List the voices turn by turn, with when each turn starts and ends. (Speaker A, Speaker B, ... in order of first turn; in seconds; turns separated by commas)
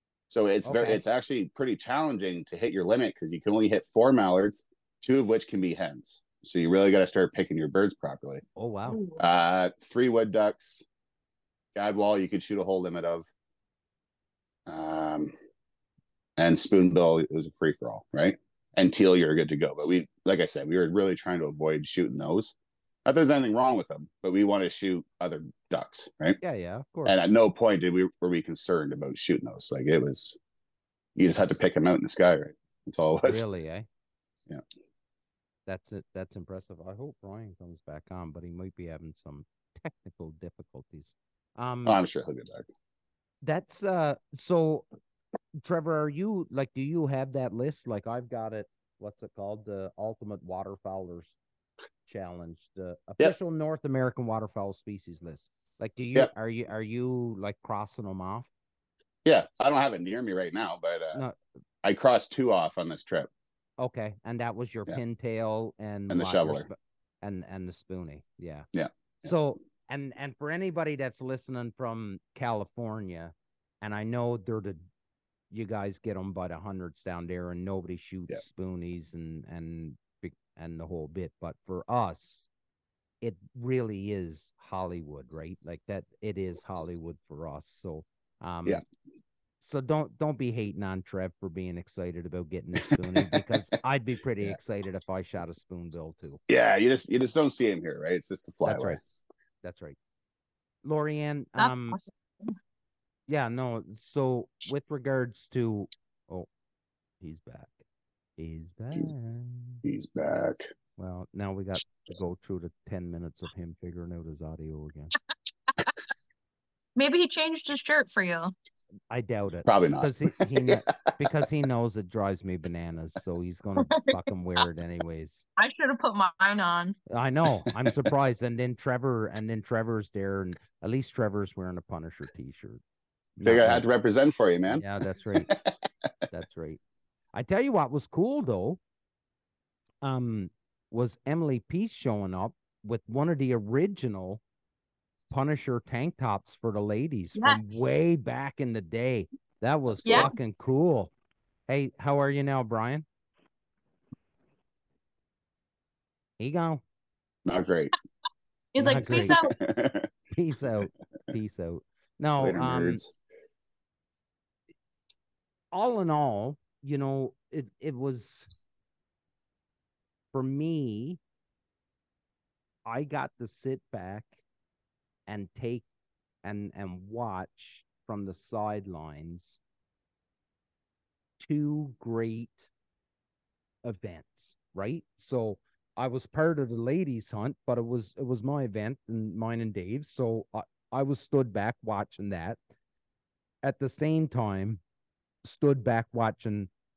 Speaker A: 0.3-8.4, Speaker B: 0.6-1.0, Speaker B: 8.6-9.0, Speaker C: 8.9-9.2, Speaker A: 9.2-10.8, Speaker A: 11.8-13.3, Speaker A: 14.7-15.3, Speaker A: 16.4-26.4, Speaker B: 26.4-27.2, Speaker A: 27.1-30.4, Speaker A: 31.2-33.4, Speaker B: 33.2-33.9, Speaker B: 35.7-42.0, Speaker A: 41.9-42.7, Speaker B: 43.4-44.9, Speaker B: 45.6-51.3, Speaker B: 52.1-58.5, Speaker A: 59.2-61.2, Speaker A: 61.8-63.3, Speaker B: 63.8-68.7, Speaker A: 66.1-66.7, Speaker A: 68.7-69.3, Speaker B: 69.2-74.8, Speaker B: 75.5-82.5, Speaker B: 83.2-88.8, Speaker B: 89.6-96.4, Speaker A: 96.5-99.0, Speaker B: 98.6-99.0, Speaker B: 99.6-100.0, Speaker B: 100.8-102.0, Speaker C: 101.6-102.5, Speaker B: 103.3-106.5, Speaker B: 107.2-107.8, Speaker B: 108.4-109.8, Speaker A: 109.8-110.6, Speaker B: 111.0-115.1, Speaker C: 117.0-118.5, Speaker B: 119.1-125.5, Speaker A: 119.7-120.9, Speaker C: 123.8-124.1, Speaker C: 125.6-127.0, Speaker B: 127.1-132.8, Speaker B: 133.4-133.8, Speaker A: 133.4-135.6, Speaker B: 134.7-135.5, Speaker B: 136.3-136.8, Speaker B: 137.3-138.8, Speaker B: 140.0-144.4, Speaker B: 145.3-151.1, Speaker C: 147.4-147.6, Speaker C: 150.1-150.3, Speaker B: 151.7-153.1, Speaker B: 156.4-156.8, Speaker A: 157.4-157.9, Speaker C: 158.7-159.5, Speaker B: 158.8-159.4, Speaker A: 159.1-160.1, Speaker B: 160.3-163.0, Speaker A: 162.4-163.1, Speaker B: 165.7-168.5, Speaker B: 170.3-171.2, Speaker B: 172.9-174.4, Speaker B: 175.3-175.9, Speaker B: 176.4-179.6, Speaker B: 181.4-182.7, Speaker B: 183.8-192.6, Speaker B: 193.6-194.8, Speaker B: 195.4-196.7